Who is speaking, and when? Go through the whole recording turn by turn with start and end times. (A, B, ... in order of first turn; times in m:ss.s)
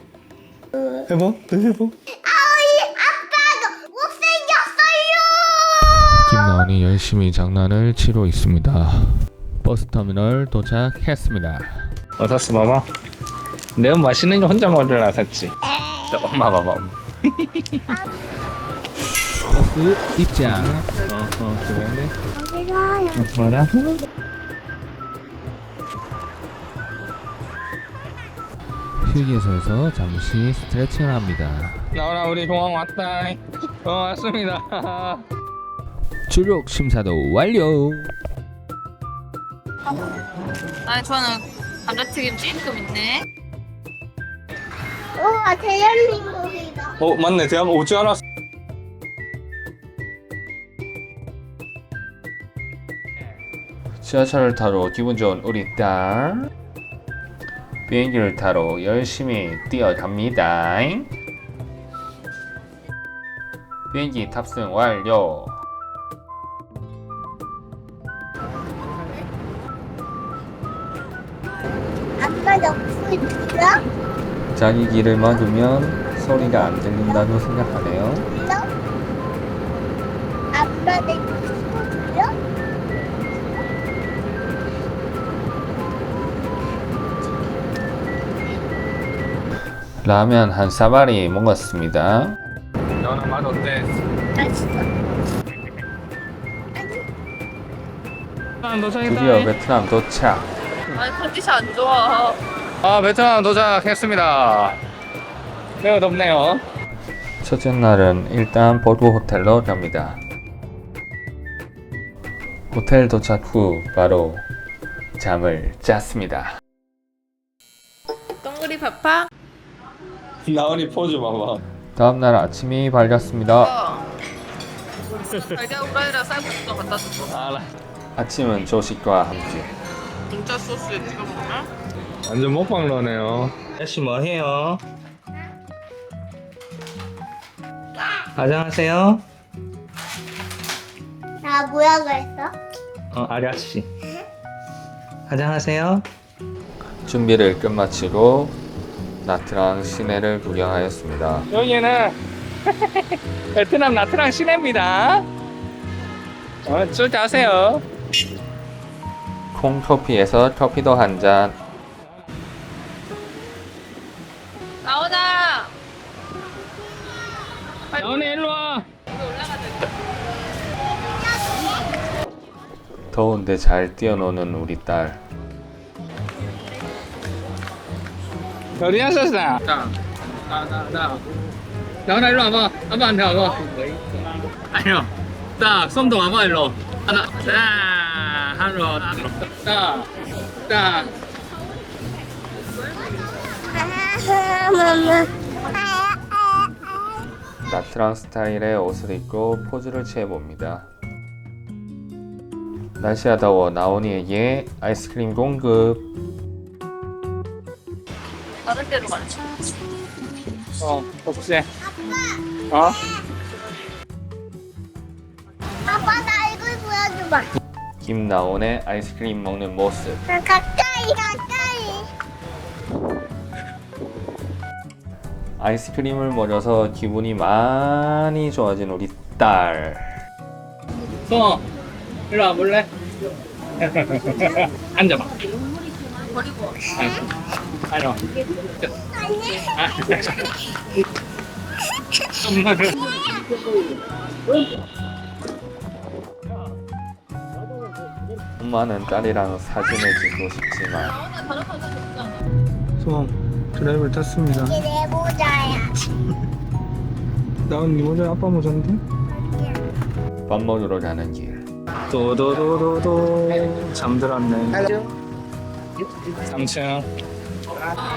0:00.7-0:01.0 A
0:01.1-0:02.0 B
0:02.1-0:06.6 A
0:06.2-0:11.9 C
0:12.2-0:12.8 B
0:13.8-0:15.5 B
0:15.6-0:16.2 A
0:16.1-0:17.8 B
0:17.9-0:18.1 A
0:19.5-0:20.9 C
0:20.4-0:22.1 B
0:22.3-0:23.3 A
0:23.2-0:24.0 B
0:29.0-0:31.9 C
0:31.9-0:35.2 B
0:36.3-0:38.1 C
0:40.8-0:43.2 D
0:45.2-0:47.0 A
0:47.0-0:48.2 B
0:54.0-0:56.5 C
0:57.9-1:01.1 C
1:03.9-1:05.6 C
1:12.2-1:13.8 A
1:14.6-1:18.3 C
1:16.6-1:17.3 A
1:18.3-1:18.7 A
1:20.5-1:22.3 A
1:30.0-1:32.4 C
1:33.0-1:34.0 B
1:34.4-1:34.9 A
1:36.8-1:37.0 A
1:38.6-1:39.5 B
1:39.0-1:40.5 C
1:40.9-1:42.4 D
1:42.8-1:44.8 B
1:45.8-1:46.6 B
1:47.4-1:50.2 C
1:52.7-1:54.5 C
1:55.2-1:56.6 C
1:58.5-1:59.0 D
2:00.4-2:01.6 B
2:02.0-2:03.7 C
2:03.6-2:04.0 D
2:05.3-2:07.3 D
2:05.3-2:05.6 B
2:07.3-2:07.7 B
2:08.2-2:09.7 C
2:10.3-2:11.7 D
2:12.2-2:14.8 B
2:18.4-2:19.2 B
2:21.4-2:22.5 A
2:23.1-2:23.9 B
2:25.3-2:26.0 B
2:27.1-2:28.6 C
2:29.2-2:31.5 C
2:31.5-2:32.2 B
2:32.7-2:35.2 B
2:36.6-2:37.8 B
2:39.5-2:41.6 C
2:44.8-2:45.7 D
2:47.9-2:48.3 D
2:48.0-2:48.9 B
2:49.1-2:49.9 D
2:53.1-2:55.2 C
2:58.8-3:00.0 B
3:00.5-3:01.2 B
3:02.1-3:10.1 B
3:10.7-3:11.1 B
3:13.7-3:17.1 A
3:17.7-3:20.9 C
3:23.0-3:26.1 C
3:28.6-3:29.6 D
3:30.8-3:31.7 B
3:31.8-3:33.0 A
3:32.7-3:33.0 B
3:35.8-3:37.5 A
3:38.0-3:40.2 C
3:40.3-3:42.1 A
3:45.6-3:50.2 C
3:51.3-3:51.6 B
3:52.3-3:52.9 B
3:53.8-3:55.3 B
3:56.4-3:56.8 D
3:57.0-3:57.2 B
3:57.9-3:58.2 B
3:59.0-3:59.9 A
3:59.7-4:00.5 B
4:02.4-4:03.0 B
4:08.6-4:11.2 C
4:11.0-4:12.4 D
4:13.0-4:14.8 B
4:14.5-4:15.9 A
4:17.7-4:19.0 B
4:19.3-4:19.8 A
4:20.5-4:21.6 C
4:22.1-4:24.9 B
4:26.4-4:27.1 B